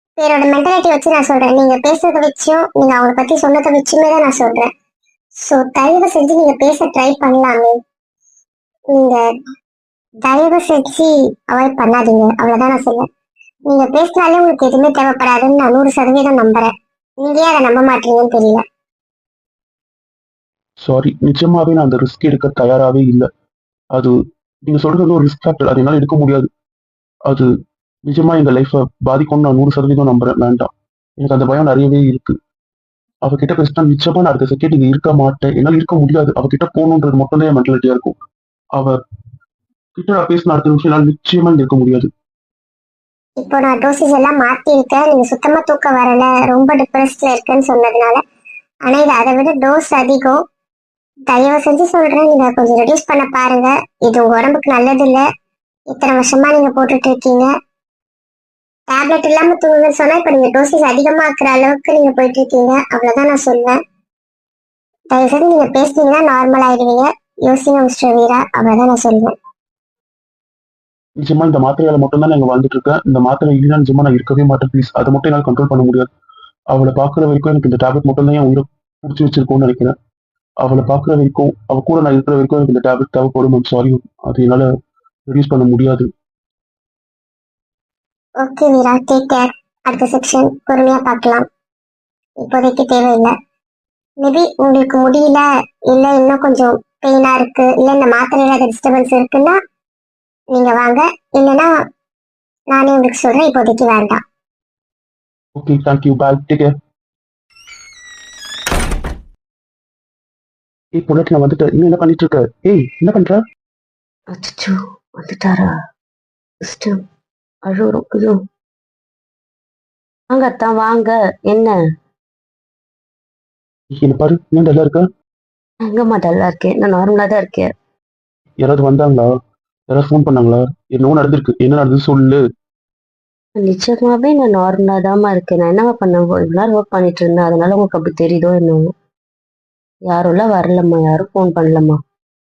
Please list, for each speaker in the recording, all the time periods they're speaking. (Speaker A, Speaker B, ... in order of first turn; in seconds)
Speaker A: 0.2-4.7, 5.4-7.8, 8.9-9.3, 10.2-13.1, 13.7-18.6, 43.4-48.2, 48.9-50.4, 51.3-55.2, 55.9-57.5, 58.9-63.8, 65.1-69.3, 88.4-91.5, 92.4-93.3, 94.2-99.6, 100.5-101.7, 102.7-104.2
Speaker B: 20.8-23.3, 24.7-26.5, 28.1-32.4, 33.2-38.2, 38.7-39.0, 40.0-42.1, 71.2-76.1, 76.7-79.9, 80.6-84.7, 85.3-86.1, 105.5-106.7, 111.0-113.4, 124.0-125.1, 128.6-129.3, 129.9-132.4
Speaker C: 114.3-115.7, 116.6-117.0, 117.7-118.4, 120.3-121.7, 125.9-127.7, 133.6-138.9, 140.1-142.0